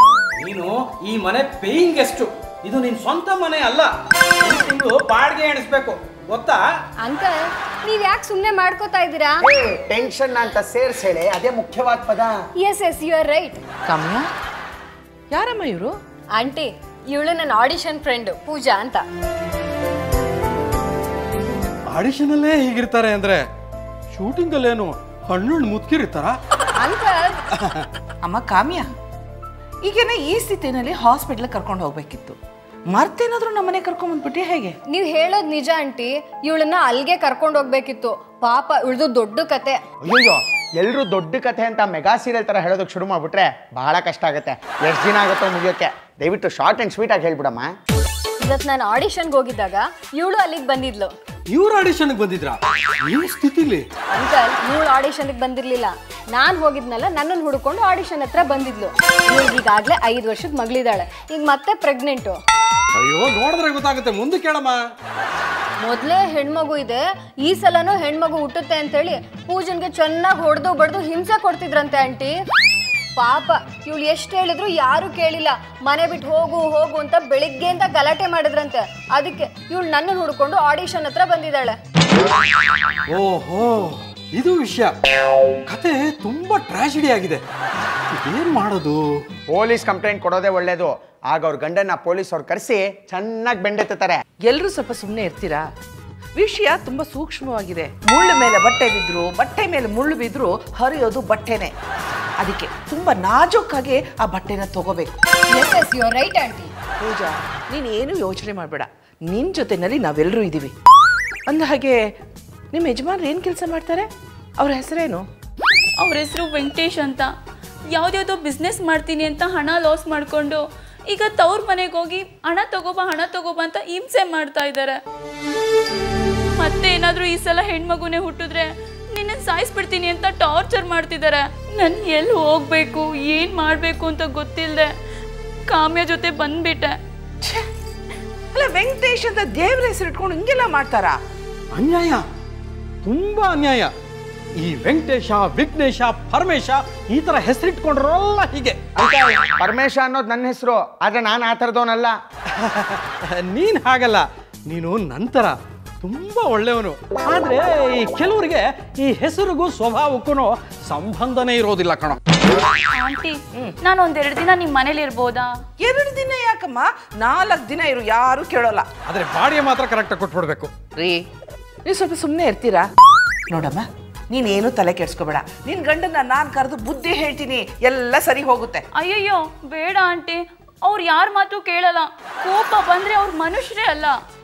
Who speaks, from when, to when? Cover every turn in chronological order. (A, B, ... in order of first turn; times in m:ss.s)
0:00.4-0:06.6 A
0:07.0-0:09.4 B
0:09.4-0:12.4 C
0:12.6-0:13.6 B
0:13.8-0:14.3 D
0:15.3-0:16.0 D
0:16.4-0:19.0 B
0:21.9-0:23.4 A
0:24.1-0:26.4 A
0:26.8-0:27.4 B
0:27.5-0:27.9 A
0:28.2-0:28.9 D
0:29.8-0:32.4 D
0:32.9-0:34.8 D
0:34.9-0:39.8 B
0:40.0-0:47.7 C
0:48.4-0:51.1 B
0:51.5-0:53.8 A
0:54.1-1:02.4 B
1:02.9-1:04.8 A
1:05.8-1:12.4 B
1:13.2-1:21.8 B
1:23.1-1:24.9 A
1:25.7-1:27.4 A
1:28.1-1:29.1 A
1:29.5-1:34.2 C
1:34.4-1:35.6 D
1:36.4-1:41.7 D
1:42.4-1:45.2 D
1:45.5-1:46.7 B
1:47.0-1:50.7 D
1:51.5-1:52.1 D
1:52.7-1:55.2 D
1:56.0-1:57.3 E
1:57.9-2:05.0 E
2:06.6-2:14.9 E
2:15.7-2:17.0 E
2:17.4-2:17.7 D
2:18.5-2:21.2 D
2:21.7-2:22.2 A
2:23.0-2:23.9 A
2:24.6-2:28.8 A
2:29.0-2:32.2 C
2:32.5-2:42.2 A
2:42.9-2:45.5 E
2:45.8-2:48.9 D
2:49.1-2:50.7 A
2:51.0-2:51.2 D
2:51.8-2:52.9 D
2:53.5-2:58.8 D
2:58.9-3:04.2 E